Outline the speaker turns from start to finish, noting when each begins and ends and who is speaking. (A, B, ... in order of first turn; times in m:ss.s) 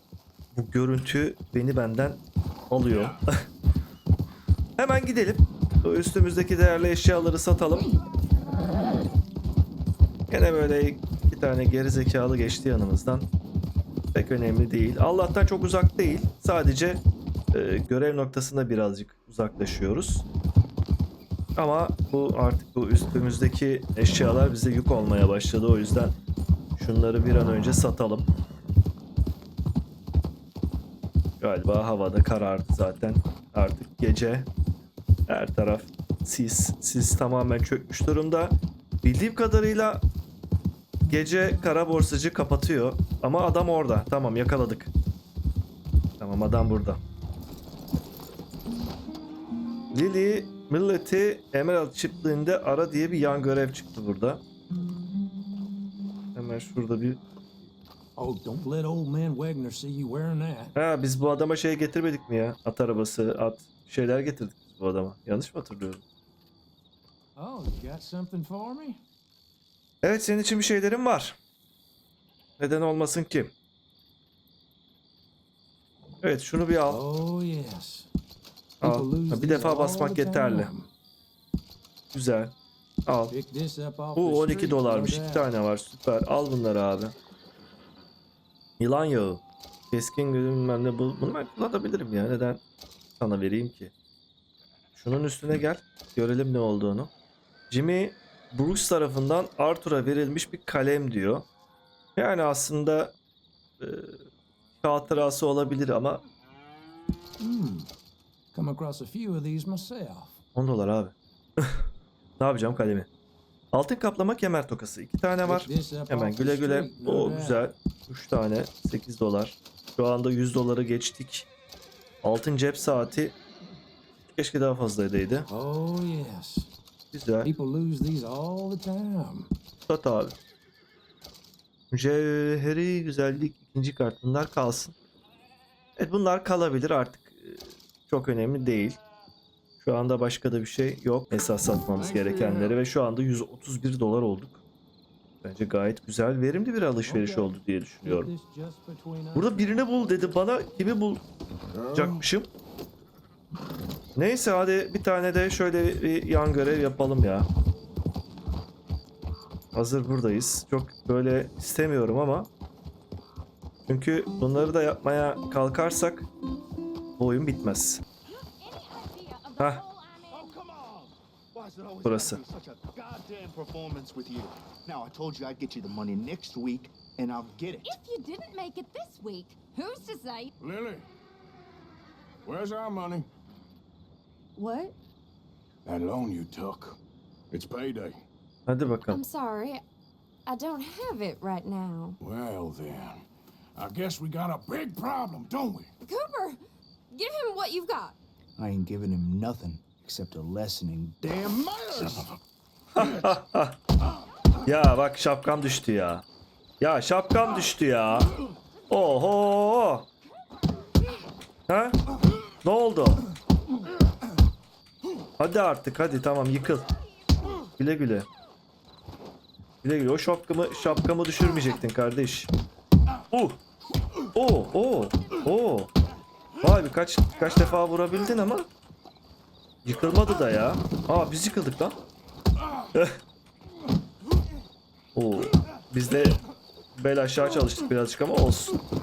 0:00.5-0:03.4 A
0:02.8-0:03.2 B
0:04.8-0:07.9 A
0:10.3-0:13.3 A
0:14.1-0:17.0 A
0:17.5-0:20.2 A
0:21.6-0:26.1 A
0:26.8-0:28.3 A
0:31.4-0:34.5 A
0:35.3-0:40.0 A
0:41.1-0:44.9 A
0:46.2-0:47.0 A
0:49.9-0:54.4 A
0:56.3-0:57.2 A
0:58.2-1:00.7 C
1:00.8-1:06.0 A
1:07.4-1:09.0 C
1:10.0-1:11.4 A
1:12.6-1:13.5 A
1:16.2-1:17.0 A
1:16.9-1:18.1 C
1:18.8-1:20.9 C
1:18.8-1:20.7 A
1:22.1-1:22.5 A
1:23.0-1:23.4 A
1:23.3-1:25.5 C
1:24.1-1:27.1 A
1:28.8-1:32.6 A
1:33.2-1:33.9 A
1:35.0-1:37.1 A
1:37.7-1:41.4 A
1:42.2-1:43.1 A
1:43.8-1:44.2 A
1:44.8-1:46.2 A
1:47.4-1:47.9 C
1:48.5-1:50.4 C
1:50.5-1:51.8 A
1:52.4-1:53.1 A
1:53.7-2:01.5 A
1:55.4-1:57.7 C
2:02.2-2:03.3 A
2:04.2-2:05.5 A
2:05.5-2:06.7 C
2:07.1-2:07.5 A
2:07.4-2:09.5 C
2:09.9-2:10.4 A
2:11.9-2:14.9 A
2:16.0-2:19.0 A
2:19.8-2:24.6 A
2:22.0-2:22.8 B
2:25.4-2:28.3 A
2:27.0-2:30.2 C
2:29.3-2:31.2 A
2:31.7-2:32.3 B
2:31.9-2:32.5 A
2:34.2-2:37.5 A
2:39.7-2:42.5 A
2:43.9-2:46.3 A
2:47.2-2:48.0 A
2:48.2-2:50.5 D
2:50.3-2:58.0 E
2:52.0-2:52.4 A
2:57.8-3:00.5 D
3:00.6-3:01.1 B
3:02.4-3:03.3 B
3:04.6-3:05.0 D
3:05.8-3:07.0 B
3:07.5-3:08.2 B
3:08.7-3:09.2 A
3:09.1-3:09.8 D
3:10.4-3:12.2 D
3:12.2-3:13.2 B
3:13.8-3:15.9 B
3:16.0-3:16.6 D
3:17.1-3:18.2 D
3:18.6-3:21.1 C
3:19.3-3:19.8 E
3:21.1-3:22.1 E
3:22.0-3:22.4 B
3:22.9-3:23.8 A
3:23.0-3:23.2 B
3:24.6-3:26.2 A
3:26.8-3:28.3 A
3:28.9-3:30.1 A
3:31.7-3:32.0 A
3:32.6-3:33.2 A
3:35.4-3:36.9 A
3:37.8-3:38.3 A
3:39.8-3:42.5 A
3:43.3-3:43.6 A
3:44.3-3:45.9 A
3:46.6-3:48.7 A
3:49.8-3:52.0 A
3:55.1-3:56.4 A
3:57.0-3:58.8 A